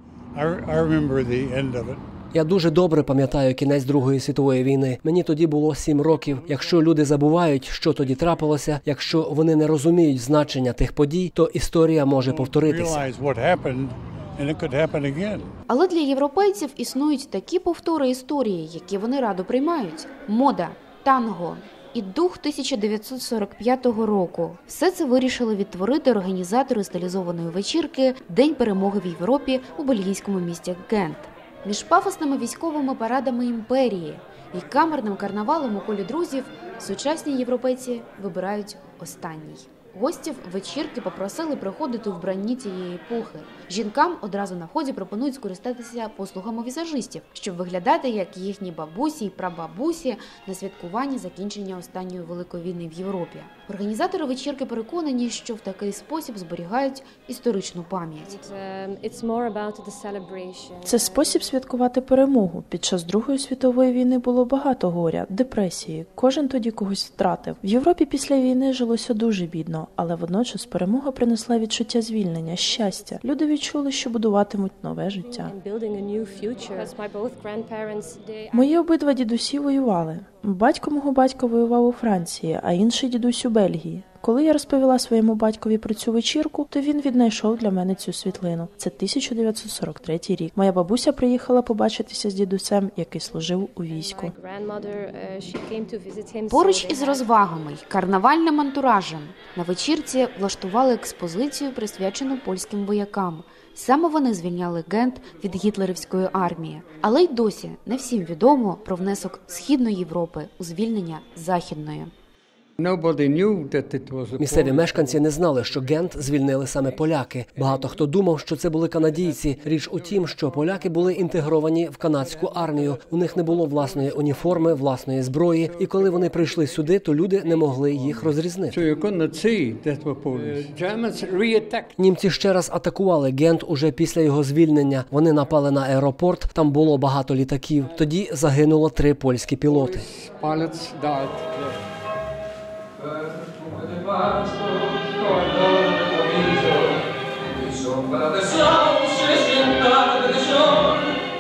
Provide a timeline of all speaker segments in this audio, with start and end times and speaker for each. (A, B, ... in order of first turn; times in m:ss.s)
0:00.3-0:02.0 A
0:02.3-0:13.1 B
0:12.2-0:15.5 A
0:15.7-0:58.4 C
0:58.3-1:01.2 D
1:00.8-1:15.6 E
1:15.4-1:18.6 D
1:18.5-1:34.3 E
1:34.0-1:37.3 D
1:36.5-1:52.1 C
1:52.8-1:55.1 F
1:54.4-2:08.8 B
2:08.7-2:11.9 F
2:12.0-2:20.1 B
2:20.1-2:21.8 F
2:23.6-2:26.7 F
2:27.9-2:30.8 F